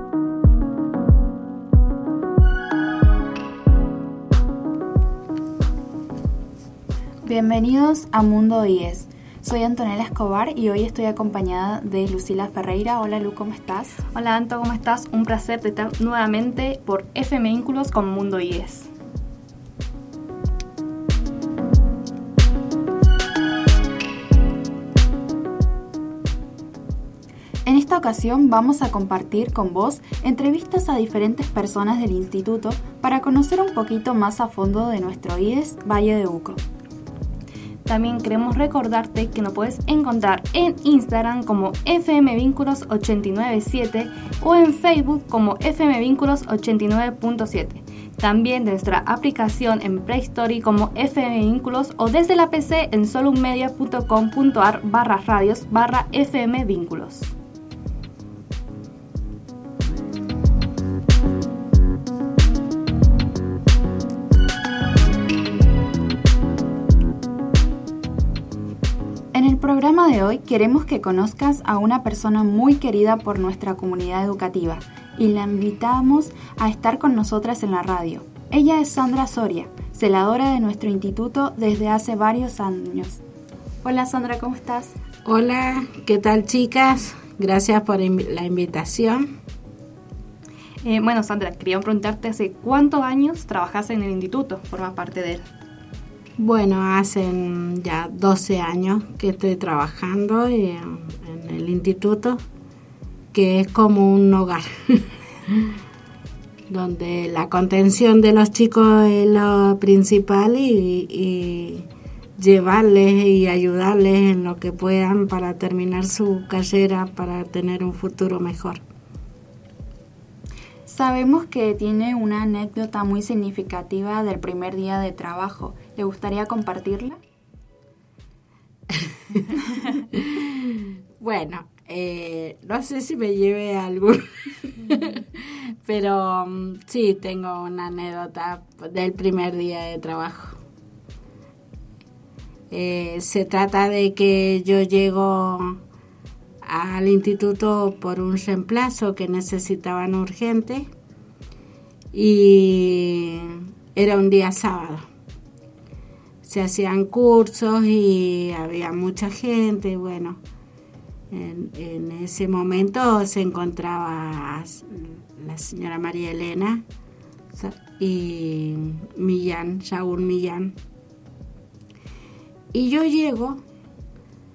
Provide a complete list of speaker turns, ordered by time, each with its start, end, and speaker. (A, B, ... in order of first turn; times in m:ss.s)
0:07.2-0:14.0 A
0:14.2-0:18.9 B
0:27.6-0:36.6 A
0:37.9-0:57.3 B
1:09.3-1:23.2 A
1:23.8-1:25.0 A
1:25.2-1:29.3 C
1:30.8-1:35.5 B
1:36.4-1:42.4 C
1:43.3-1:45.7 C
1:46.7-1:51.9 C
1:52.4-1:58.8 C
2:00.9-2:07.2 A
2:08.9-2:09.5 C
2:10.0-2:20.6 C
2:22.7-2:25.8 C
2:26.6-2:30.9 C
2:32.1-2:35.0 C
2:36.4-2:40.4 C
2:41.3-2:46.8 C
2:47.6-2:50.8 C
2:52.7-2:53.6 C